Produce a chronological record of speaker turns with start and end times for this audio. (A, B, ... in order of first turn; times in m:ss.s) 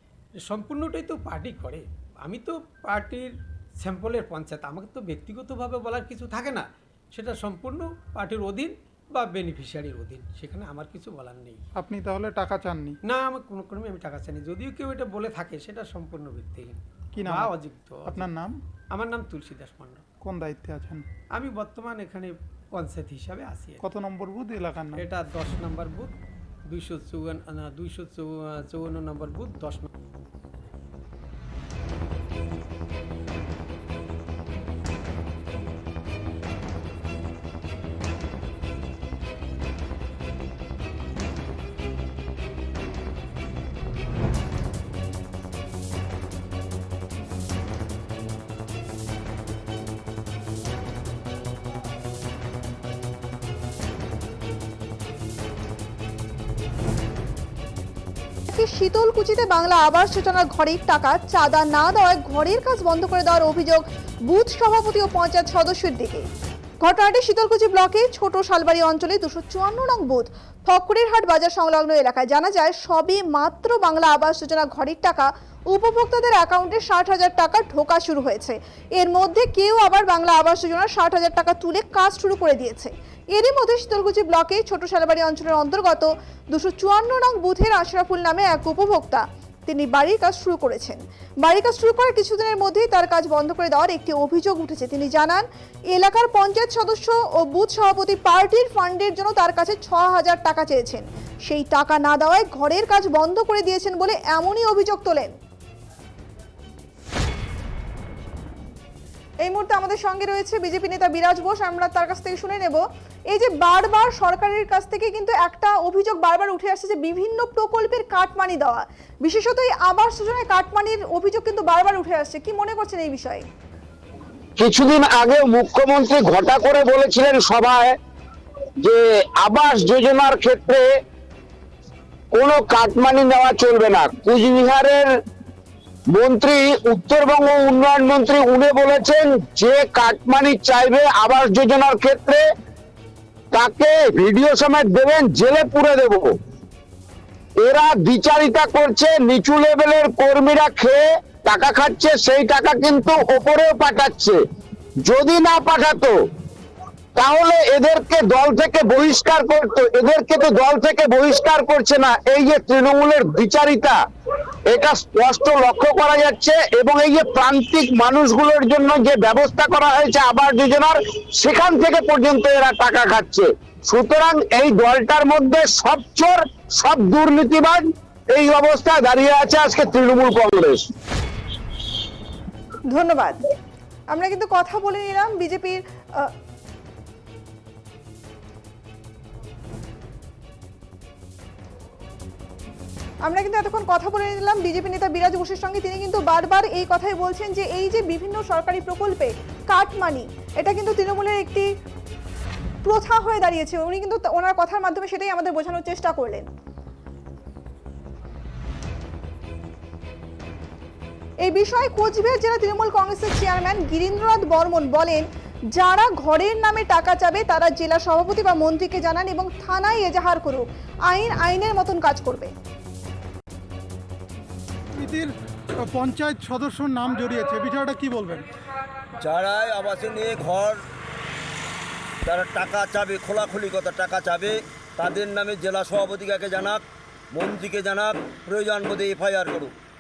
0:00.5-0:11.6 A
0:11.8-0:13.0 B
0:13.0-0:18.3 A
0:17.1-0:17.5 B
0:18.1-0:18.5 B
0:18.9-0:20.0 A
0:20.2-0:21.0 B
0:21.3-0:23.9 A
0:23.8-0:25.0 B
0:24.9-0:26.1 A
0:26.7-0:29.9 A
0:58.5-1:06.3 C
1:06.8-1:45.4 C
1:49.4-2:03.5 C
2:04.6-2:08.0 D
2:08.8-2:10.9 D
2:12.3-2:15.1 D
2:16.1-2:22.4 D
2:23.5-2:26.3 D
2:27.6-2:34.4 D
2:35.0-2:36.2 D
2:37.2-2:44.0 D
2:44.7-3:00.8 D
3:02.9-3:03.4 C
3:04.1-3:06.3 C
3:13.2-3:21.7 C
3:22.8-3:26.5 C
3:31.4-3:35.2 C
3:35.7-3:42.5 C
3:44.9-3:48.4 B
3:49.2-3:50.8 E
3:52.2-3:59.7 E